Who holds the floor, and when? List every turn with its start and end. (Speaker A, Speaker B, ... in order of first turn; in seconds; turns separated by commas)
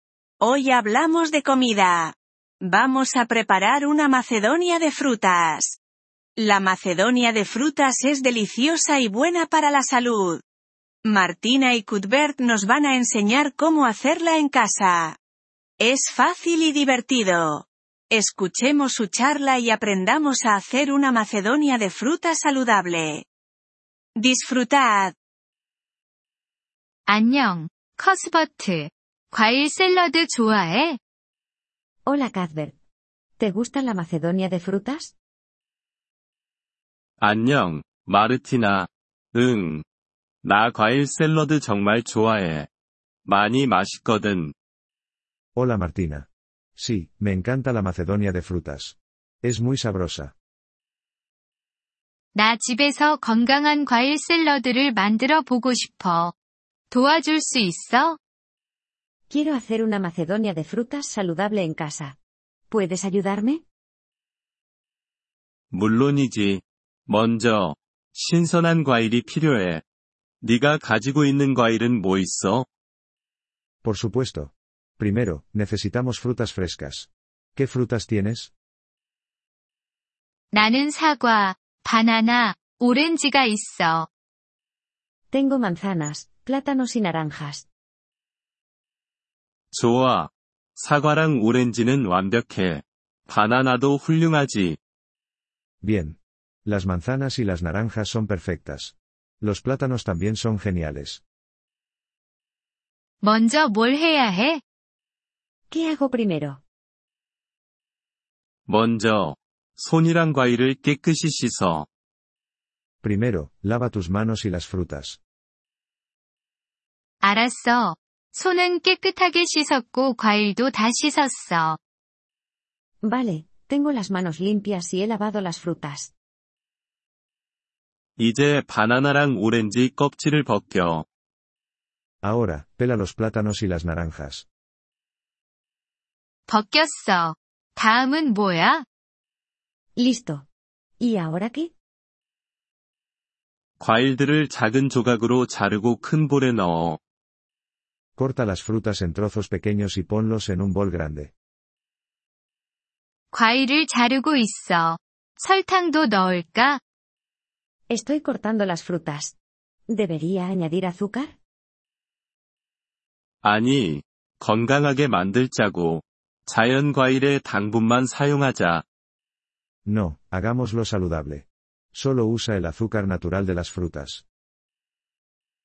Speaker A: 0.4-5.8, Speaker A: 6.4-10.4, Speaker A: 11.1-15.2, Speaker A: 15.8-23.2, Speaker A: 24.2-25.1, Speaker B: 27.1-31.0, Speaker C: 32.1-32.7, Speaker C: 33.4-35.1, Speaker D: 37.2-39.8, Speaker D: 40.4-42.7, Speaker D: 43.2-44.5, Speaker E: 45.5-50.3, Speaker B: 52.3-56.3, Speaker B: 56.9-58.2, Speaker C: 59.3-62.1, Speaker C: 62.7-63.6, Speaker D: 65.7-69.8, Speaker D: 70.4-72.7, Speaker E: 73.8-78.5, Speaker B: 80.5-84.1, Speaker C: 85.3-87.7, Speaker D: 89.7-94.8, Speaker E: 95.8-101.2, Speaker B: 103.2-104.6, Speaker C: 105.7-106.6, Speaker D: 108.7-111.8, Speaker E: 113.0-115.2, Speaker B: 117.2-121.8, Speaker C: 123.0-126.1, Speaker D: 128.2-131.0, Speaker E: 132.2-134.4, Speaker B: 136.5-138.8, Speaker C: 140.0-140.4, Speaker C: 141.0-141.7, Speaker D: 143.8-147.0, Speaker E: 148.2-151.3, Speaker B: 153.3-156.8, Speaker C: 157.9-159.3, Speaker C: 159.9-161.3, Speaker D: 163.4-168.8, Speaker E: 169.9-174.2